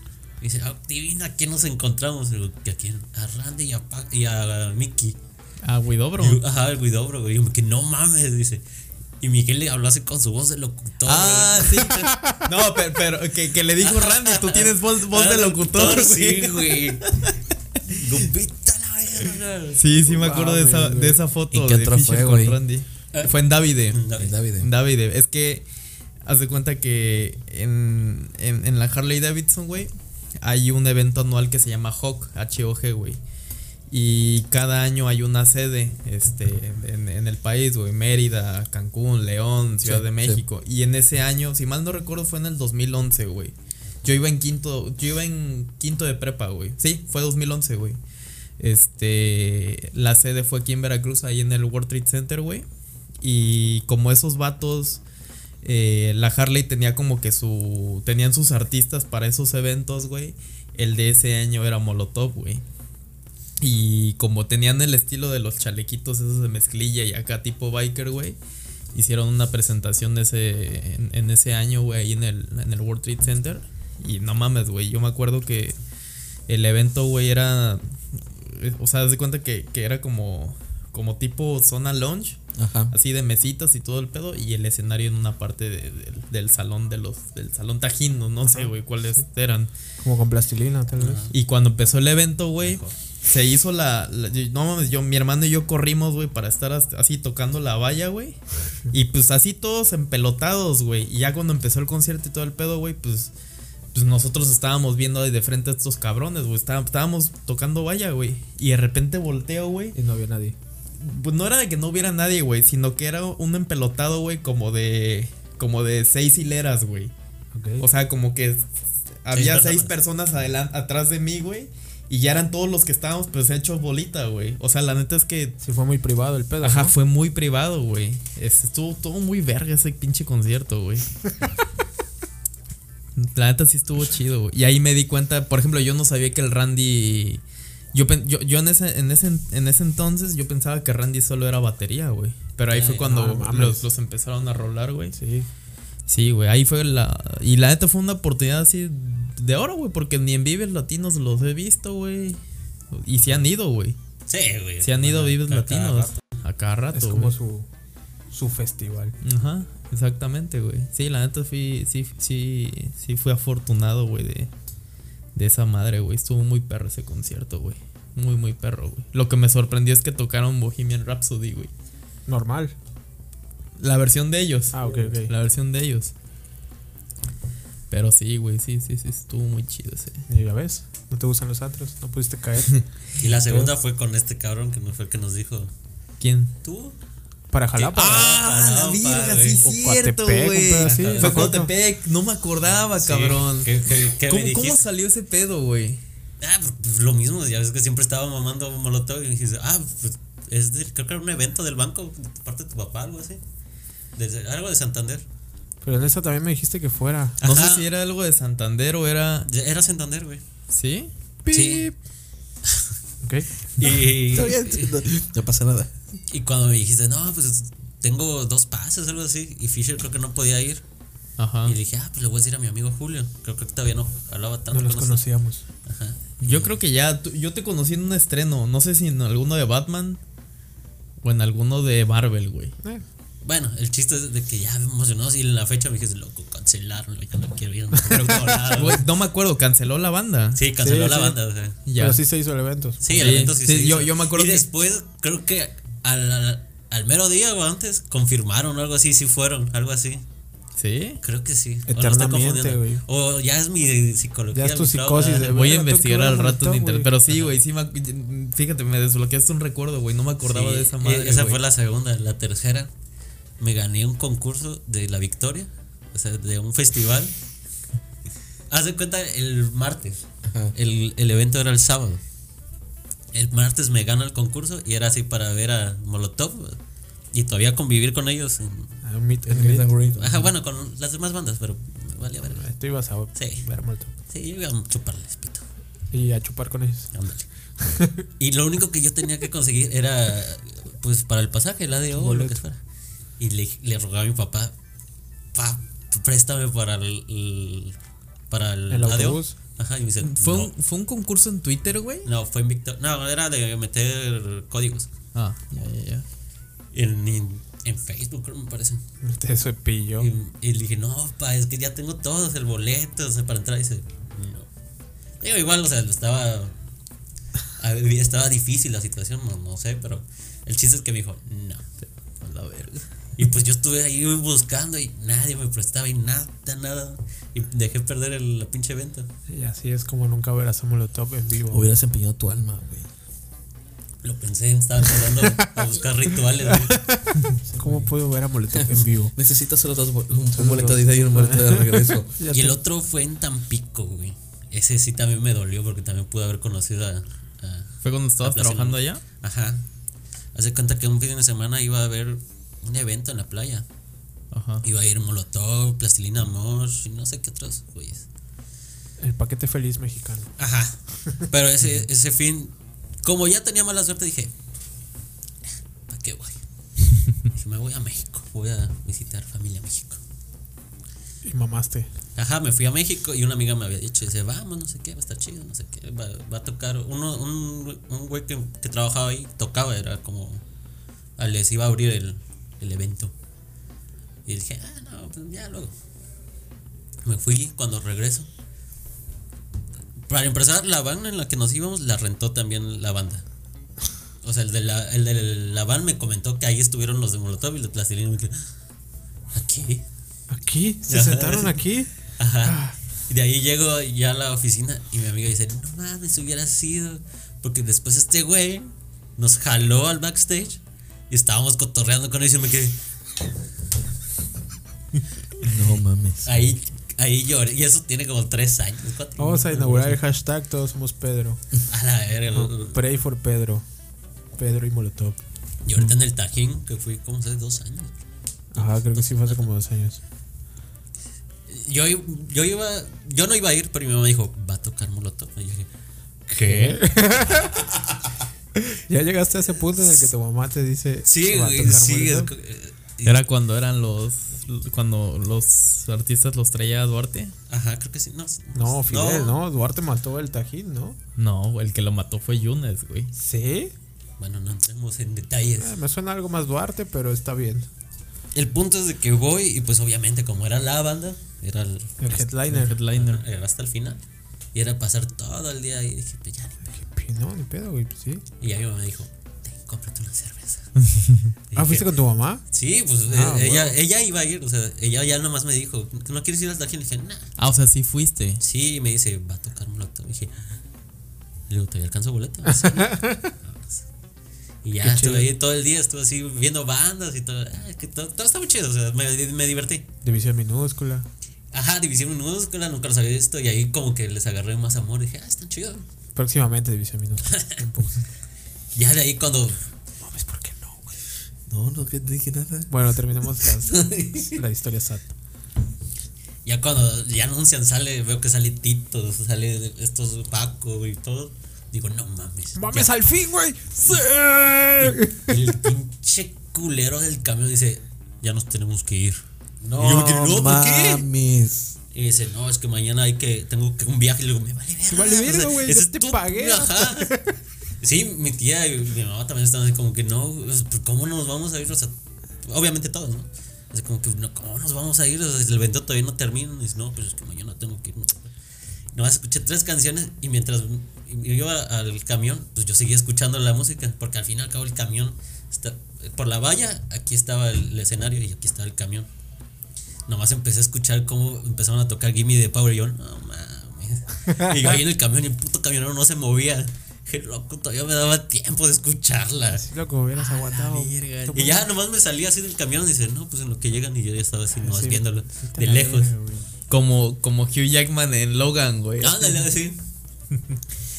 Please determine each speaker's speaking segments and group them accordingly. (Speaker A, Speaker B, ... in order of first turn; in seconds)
Speaker A: 0.4-5.2, 6.2-8.6, 9.2-12.1, 13.8-19.9, 23.9-24.3, 91.0-91.3, 92.6-92.9, 119.3-119.9, 142.7-143.1, 154.3-156.2, 183.2-185.7, 186.6-186.9, 187.7-189.6, 190.8-191.6, 192.9-194.8, 196.4-203.4, 204.2-205.2, 207.4-207.9, 209.4-210.4, 211.5-211.9, 212.7-212.9, 213.8-215.0, 216.3-220.8, 221.6-225.2, 225.8-226.8, 233.4-239.1, 240.5-241.8, 243.0-250.2, 251.2-255.6, 257.2-257.6, 260.4-262.9, 263.6-267.3, 268.7-272.2, 273.3-276.8, 277.3-278.9, 280.2-282.7, 283.3-283.6, 284.3-285.6, 287.1-287.4, 288.4-292.8, 293.4-294.7, 295.5-298.0, 298.5-300.7, 302.2-305.1, 306.9-309.0, 310.2-314.7, 315.4-316.7, 317.8-321.9, 323.4-329.3, 334.2-337.0, 342.5-349.8, 350.5-353.8, 354.8-358.2, 360.6-364.5, 366.1-366.6, 367.5-370.2, 372.4-380.6, 381.4-383.3, 384.4-385.9, 387.2-388.5, 390.3-393.4, 394.4-398.7, 399.5-400.0, 401.1-413.0, 416.4-420.2, 421.9-423.0, 425.8-428.1, 428.7-429.6, 431.7-435.9, 436.5-437.0, 441.2-443.4, 447.7-449.6, 454.4-455.9, 458.5-462.2, 463.1-464.2, 464.7-466.9, 468.6-471.0, 471.7-472.1, 472.7-477.5, 478.6-480.6, 481.7-484.0, 484.8-490.1, 491.7-496.1, 498.9-499.8, 506.6-513.1, 515.0-521.3, 522.1-527.3, 528.0-538.5, 539.1-549.3, 550.3-559.8, 561.5-566.3, 569.2-570.0
Speaker B: 5.6-6.4, 11.0-17.4, 19.8-24.0, 24.6-25.6, 26.2-29.9, 30.4-33.2, 33.9-48.0, 48.6-52.6, 53.2-55.0, 55.6-62.6, 63.6-68.4, 68.9-75.8, 76.5-82.4, 82.9-89.7, 91.3-103.3, 103.9-109.9, 111.0-117.1, 117.8-118.7, 119.2-125.6, 126.6-131.3, 133.2-137.4, 137.9-145.2, 146.1-152.4, 152.9-153.9, 154.8-157.3, 159.2-164.5, 165.3-171.7, 173.8-176.1, 177.9-180.2, 186.2-186.5, 187.9-196.0, 207.4-209.5, 210.7-211.8, 221.4-221.8, 226.4-230.2, 231.2-232.7, 238.1-240.6, 241.8-242.2, 243.1-244.7, 250.8-251.2, 255.4-261.6, 300.2-302.3, 305.3-306.2, 322.0-323.0, 348.0-349.2, 354.5-354.8, 443.2-447.5, 451.4-453.3, 462.6-463.4, 477.6-478.6, 560.4-561.8, 566.9-569.7
Speaker C: 12.0-12.5, 20.0-21.2, 88.5-88.7, 90.0-91.2, 109.9-110.5, 117.5-117.8, 125.6-126.9, 143.0-143.9, 145.1-145.5, 156.9-157.7, 158.3-159.2, 172.3-172.7, 174.7-175.3, 180.3-182.8, 187.5-188.3, 189.6-191.7, 205.8-207.4, 211.5-211.9, 213.2-213.5, 224.7-225.6, 238.0-238.6, 240.8-241.4, 241.9-243.1, 251.9-253.0, 254.5-257.1, 279.0-279.9, 282.5-284.1, 286.1-287.1, 287.8-288.3, 292.1-292.6, 298.9-299.6, 309.2-310.3, 329.5-331.9, 335.4-335.8, 336.6-339.3, 340.5-342.8, 359.2-360.5, 371.4-372.1, 400.5-402.1, 402.6-402.9, 419.4-421.6, 422.5-423.9, 424.6-425.4, 428.7-430.2, 436.6-437.8, 438.8-442.5, 448.7-451.2, 453.3-453.9, 455.8-457.9, 462.2-463.0, 466.9-468.4, 471.7-472.6, 473.3-473.9, 482.7-483.5, 485.0-485.5, 490.2-491.2, 496.3-498.2, 500.2-501.1, 502.9-505.3, 512.7-515.6, 525.1-527.5, 554.5-554.9, 559.7-561.9, 564.7-566.7
Speaker D: 21.5-22.6, 24.1-24.7, 39.8-40.4, 82.5-82.9, 214.2-215.9, 270.4-270.7, 279.4-280.5, 331.7-333.1, 337.7-338.1, 338.7-342.3, 415.6-416.8, 501.7-502.9, 503.6-504.5, 519.8-521.9